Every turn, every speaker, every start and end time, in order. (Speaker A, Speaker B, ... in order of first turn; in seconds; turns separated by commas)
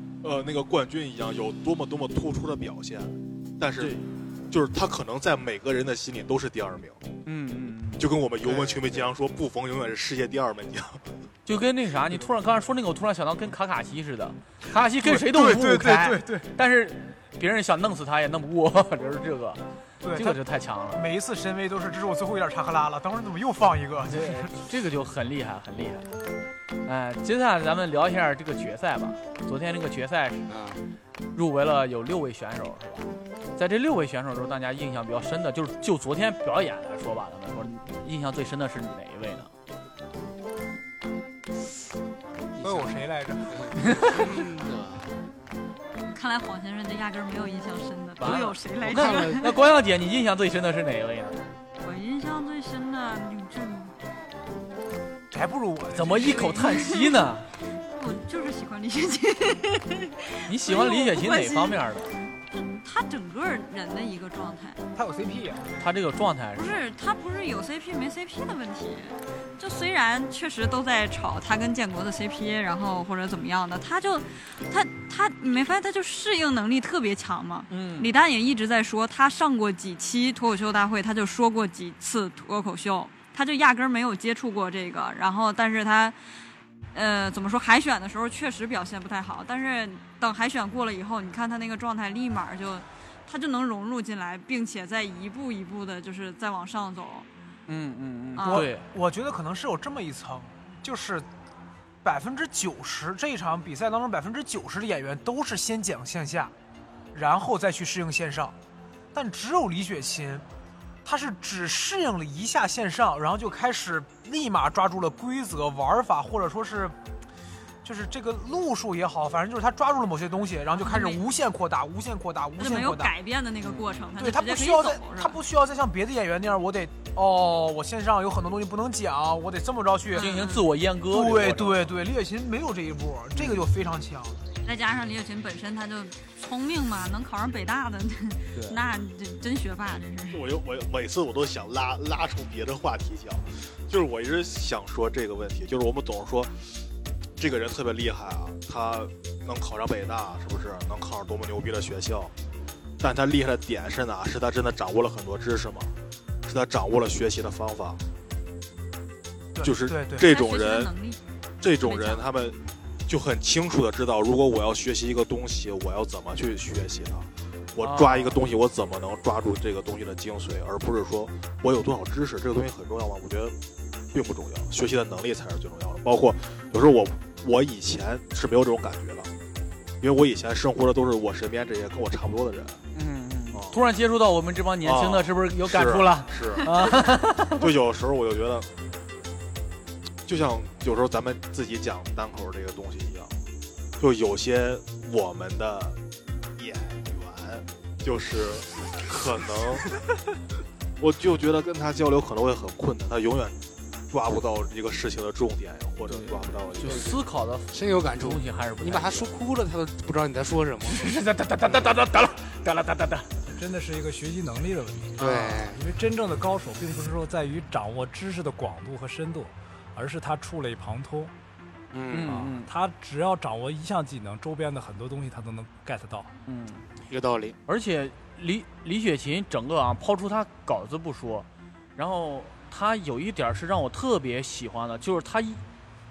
Speaker A: 0.2-7.0, Speaker B: 3.8-4.0, Speaker B: 7.2-9.0, Speaker A: 8.0-11.1, Speaker B: 11.4-19.6, Speaker C: 15.0-16.5, Speaker C: 20.0-20.4, Speaker B: 20.1-21.0, Speaker C: 20.9-24.6, Speaker B: 24.1-26.1, Speaker B: 26.8-30.5, Speaker D: 30.5-30.8, Speaker B: 31.3-39.5, Speaker D: 42.6-42.9, Speaker C: 42.6-43.7, Speaker D: 43.5-45.1, Speaker B: 43.7-44.4, Speaker E: 46.1-49.5, Speaker B: 48.2-51.4, Speaker D: 48.8-49.5, Speaker E: 51.8-54.0, Speaker C: 55.3-56.6, Speaker B: 55.9-57.5, Speaker E: 56.2-57.3, Speaker E: 57.9-61.8, Speaker B: 60.5-62.1, Speaker E: 62.5-64.8, Speaker C: 64.9-65.7, Speaker B: 65.8-66.8, Speaker E: 66.5-86.2, Speaker B: 77.7-78.1, Speaker E: 86.9-97.3, Speaker B: 97.7-98.8, Speaker E: 98.4-98.7, Speaker C: 98.4-101.3, Speaker C: 102.0-106.5, Speaker C: 107.1-108.5, Speaker C: 109.1-110.5, Speaker C: 111.0-117.0, Speaker C: 117.8-123.1, Speaker E: 120.8-121.2, Speaker E: 122.6-125.4, Speaker C: 124.2-130.3, Speaker E: 130.1-130.7, Speaker B: 130.1-131.9, Speaker C: 131.1-134.4, Speaker B: 133.3-133.6, Speaker E: 134.6-140.5, Speaker A: 140.3-146.7, Speaker A: 147.4-152.3, Speaker A: 153.0-155.9, Speaker A: 156.4-158.0, Speaker C: 159.6-160.2, Speaker A: 159.6-160.9, Speaker E: 160.2-161.2, Speaker A: 161.6-173.5, Speaker E: 161.8-162.3, Speaker B: 167.8-168.4, Speaker A: 174.1-179.3, Speaker A: 180.0-182.8, Speaker B: 182.9-187.7, Speaker A: 183.5-183.8, Speaker A: 184.8-186.7, Speaker A: 187.5-188.7, Speaker A: 190.2-193.3, Speaker A: 194.0-196.0, Speaker A: 196.6-200.0, Speaker A: 201.0-203.6, Speaker A: 204.1-207.1, Speaker B: 206.1-209.3, Speaker D: 206.8-207.2, Speaker D: 207.7-211.1, Speaker B: 210.8-213.3, Speaker F: 213.5-221.3, Speaker D: 215.2-215.8, Speaker D: 221.9-222.5, Speaker B: 222.1-222.7, Speaker F: 222.6-226.3, Speaker B: 226.4-226.8, Speaker D: 227.1-227.6, Speaker B: 227.7-235.6